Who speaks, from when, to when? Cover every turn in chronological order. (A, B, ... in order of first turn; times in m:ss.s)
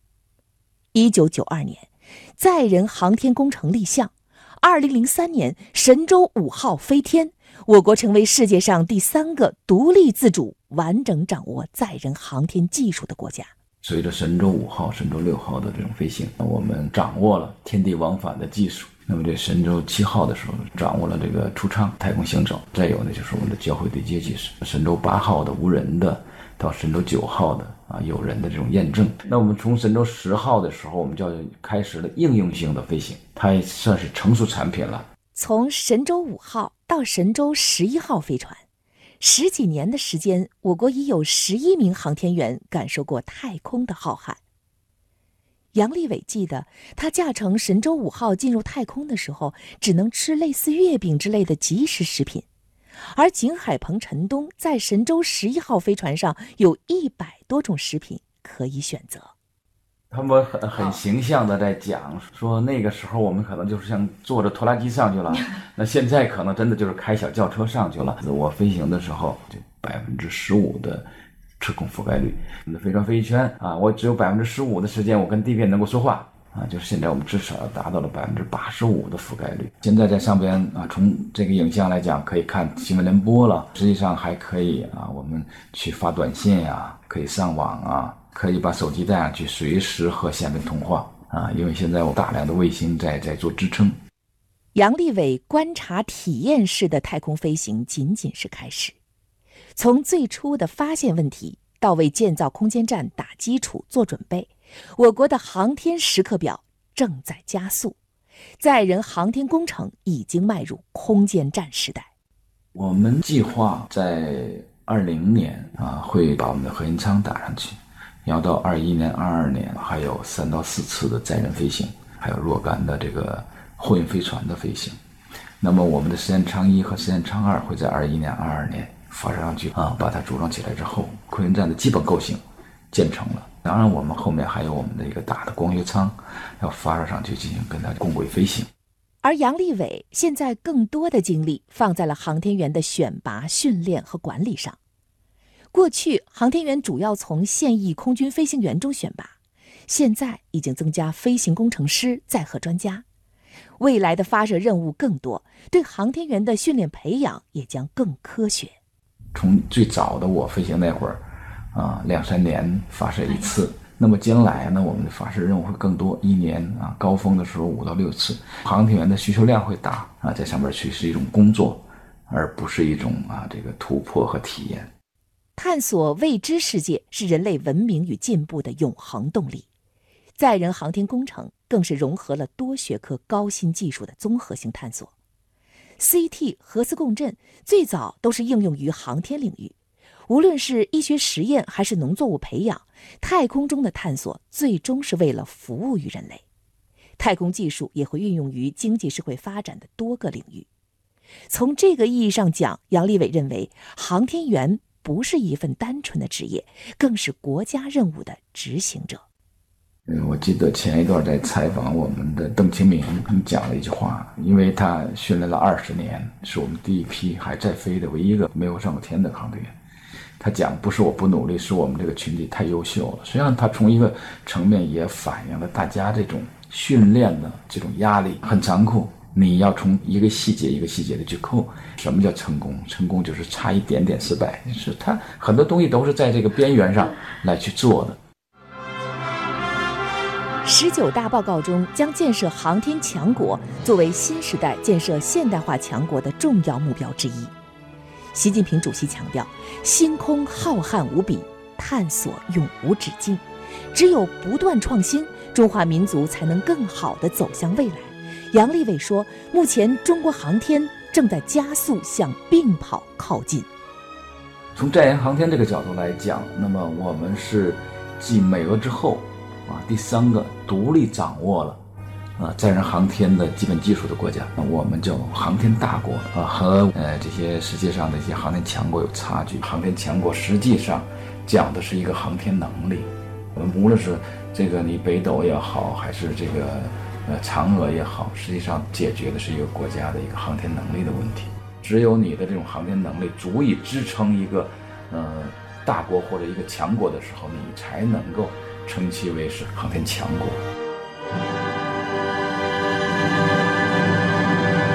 0:00.9-0:13.5 A
0:13.8-0:35.1 B
0:35.3-0:38.6 A
0:39.2-0:44.4 A
0:45.7-0:52.4 A
0:53.1-0:59.3 A
1:00.1-1:11.1 B
1:11.6-1:34.0 B
1:34.7-1:39.0 A
1:39.8-1:48.0 A
1:48.6-1:52.1 A
1:52.7-2:05.0 B
2:05.6-2:18.7 B
2:19.2-2:24.8 A
2:25.7-2:29.3 A
2:29.9-2:33.0 A
2:33.8-2:38.8 A
2:39.3-2:41.2 B
2:41.7-2:54.9 B
2:55.6-2:59.7 A
3:00.4-3:05.1 A
3:06.0-3:09.8 A
3:10.3-3:16.4 A
3:17.2-3:20.7 A
3:21.5-3:29.2 A
3:30.0-3:39.7 B
3:40.4-3:58.2 B
4:00.6-4:07.5 A
4:08.3-4:23.7 A
4:24.7-4:31.8 B
4:32.4-5:00.6 B